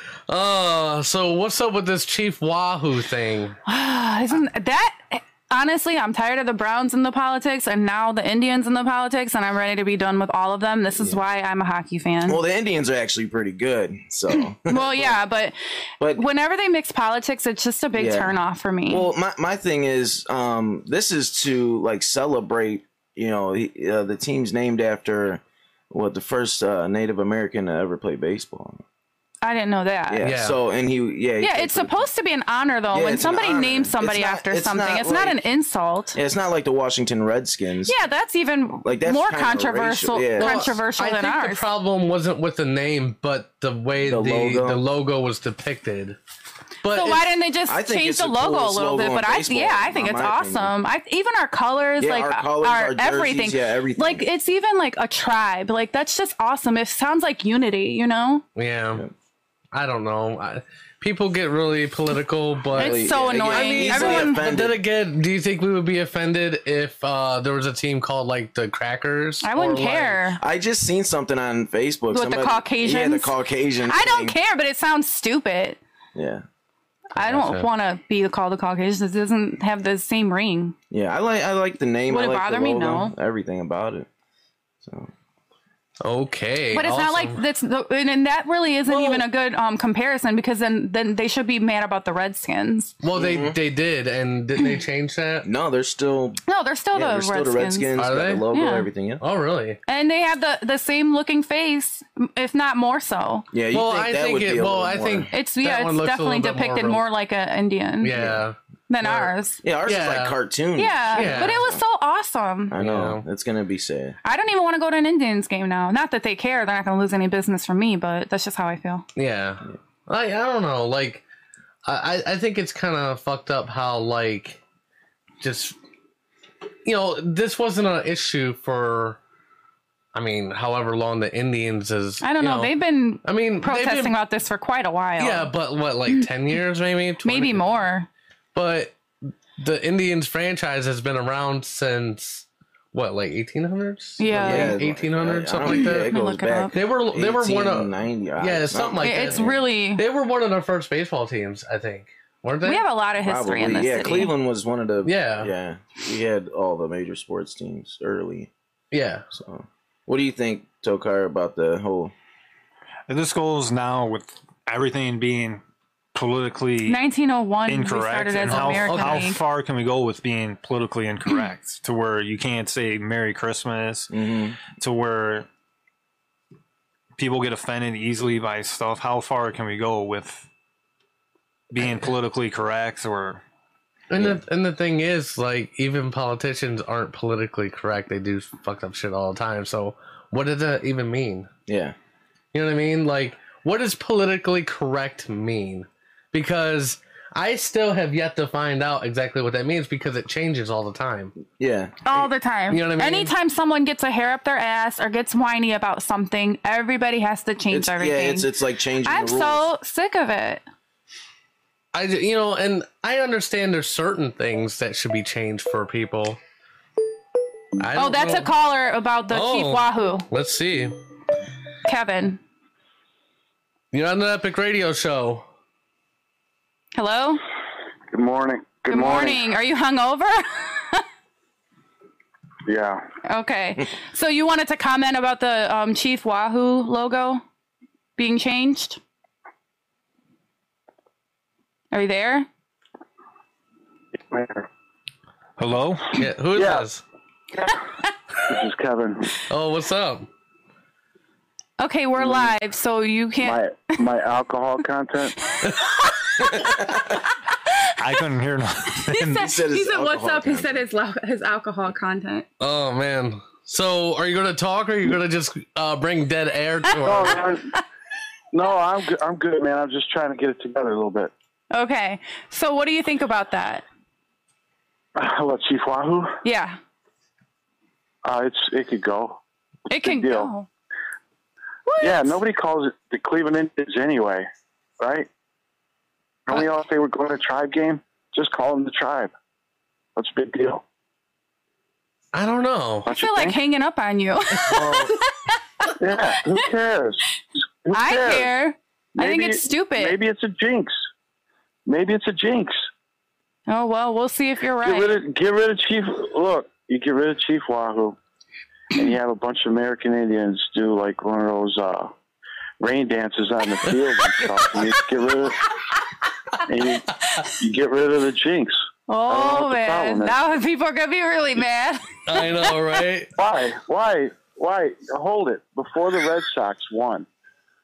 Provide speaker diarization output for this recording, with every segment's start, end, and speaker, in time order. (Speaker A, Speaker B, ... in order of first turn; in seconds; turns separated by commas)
Speaker A: 0.3-3.5, Speaker B: 3.7-12.4, Speaker C: 12.2-15.2, Speaker B: 14.7-15.5, Speaker B: 16.1-19.1, Speaker C: 17.9-18.3, Speaker C: 18.9-28.8, Speaker B: 29.4-30.2, Speaker C: 30.1-32.1, Speaker A: 30.2-30.6, Speaker B: 31.4-36.2, Speaker C: 32.9-35.4, Speaker C: 36.1-38.0, Speaker B: 37.9-41.6, Speaker C: 38.8-40.8, Speaker A: 40.4-46.2, Speaker C: 44.0-44.8, Speaker A: 46.8-47.3, Speaker B: 46.9-58.4, Speaker C: 47.7-50.7, Speaker C: 52.0-54.3, Speaker A: 58.5-59.0, Speaker A: 59.7-70.2, Speaker C: 62.7-64.8, Speaker B: 62.7-64.4, Speaker B: 69.4-70.4, Speaker C: 70.4-74.4, Speaker B: 72.1-73.3, Speaker B: 73.9-75.8, Speaker C: 76.1-76.4, Speaker B: 77.1-80.7, Speaker A: 77.2-77.7, Speaker C: 80.9-84.1, Speaker B: 82.1-83.1, Speaker C: 84.8-85.1, Speaker A: 86.0-87.4, Speaker B: 86.7-92.9, Speaker A: 88.9-89.2, Speaker A: 93.0-95.5, Speaker C: 93.1-93.6, Speaker C: 95.4-96.4, Speaker B: 96.5-97.9, Speaker C: 96.9-99.2, Speaker A: 98.0-98.4, Speaker B: 98.5-98.9, Speaker A: 99.2-99.8, Speaker B: 99.9-103.5, Speaker C: 103.5-105.3, Speaker A: 103.7-107.0, Speaker B: 105.3-108.1, Speaker A: 108.0-109.3, Speaker C: 108.1-108.4, Speaker B: 108.9-109.6, Speaker C: 109.6-111.8, Speaker A: 109.8-110.3, Speaker B: 110.8-112.8, Speaker A: 111.1-111.7, Speaker C: 112.7-114.2, Speaker A: 112.8-113.2, Speaker B: 114.2-119.0, Speaker A: 119.2-121.2, Speaker A: 121.8-124.6, Speaker A: 125.4-125.7, Speaker A: 126.8-129.2, Speaker A: 130.1-132.7, Speaker B: 132.2-135.5, Speaker A: 133.2-134.1, Speaker A: 135.2-137.6, Speaker B: 137.2-138.1, Speaker A: 138.5-138.9, Speaker A: 139.6-146.1, Speaker B: 144.2-144.8, Speaker C: 144.4-149.6, Speaker B: 145.7-146.7, Speaker A: 146.7-149.4, Speaker B: 149.0-150.0, Speaker A: 149.9-152.8, Speaker B: 152.6-154.3, Speaker C: 153.2-158.5, Speaker A: 155.0-155.5, Speaker A: 158.9-159.2, Speaker C: 159.3-162.1, Speaker D: 163.1-165.6, Speaker D: 166.1-167.0, Speaker B: 166.8-169.4, Speaker D: 167.7-174.1, Speaker A: 168.5-169.3, Speaker C: 174.1-174.6, Speaker D: 174.6-175.5, Speaker D: 177.2-180.5, Speaker D: 181.7-183.4, Speaker A: 184.1-191.5, Speaker C: 191.7-191.9, Speaker A: 192.5-201.3, Speaker C: 201.6-202.3, Speaker B: 202.0-208.5, Speaker A: 202.7-203.3, Speaker C: 207.7-209.7, Speaker B: 209.0-210.6, Speaker A: 211.9-216.4, Speaker A: 217.8-218.5, Speaker B: 217.9-220.3, Speaker A: 219.3-220.9, Speaker B: 221.8-222.4, Speaker A: 223.9-225.4, Speaker B: 226.9-227.4, Speaker E: 228.1-229.4, Speaker B: 228.9-231.0, Speaker E: 232.7-233.0, Speaker B: 233.2-237.4, Speaker B: 238.2-239.0, Speaker B: 241.9-242.4, Speaker E: 244.3-244.7, Speaker D: 245.6-246.2, Speaker A: 246.1-247.0, Speaker E: 246.5-246.8, Speaker E: 248.4-249.3, Speaker A: 249.5-250.3, Speaker B: 251.8-253.6, Speaker E: 253.4-255.3, Speaker C: 256.4-257.0, Speaker D: 258.0-259.4, Speaker B: 259.1-262.5, Speaker C: 259.4-260.8, Speaker A: 262.6-267.4, Speaker E: 267.0-267.7, Speaker E: 268.5-271.3, Speaker B: 271.7-273.8, Speaker E: 275.1-276.3, Speaker B: 276.4-276.8, Speaker E: 278.2-279.4, Speaker B: 279.9-280.7, Speaker E: 279.9-280.5, Speaker B: 281.9-282.4, Speaker E: 282.0-284.4, Speaker E: 285.0-285.3, Speaker E: 286.5-289.3, Speaker E: 290.1-290.8, Speaker A: 292.3-293.1, Speaker E: 293.1-293.6, Speaker B: 293.1-295.1, Speaker C: 294.7-295.1, Speaker E: 296.0-297.2, Speaker E: 297.8-298.5, Speaker B: 297.9-300.1, Speaker E: 299.2-300.9, Speaker E: 301.9-302.8, Speaker B: 303.7-305.1, Speaker E: 304.8-308.2, Speaker E: 308.9-312.1, Speaker E: 312.8-315.7, Speaker E: 316.6-320.4, Speaker B: 319.1-322.4, Speaker A: 322.3-323.3, Speaker E: 323.4-327.3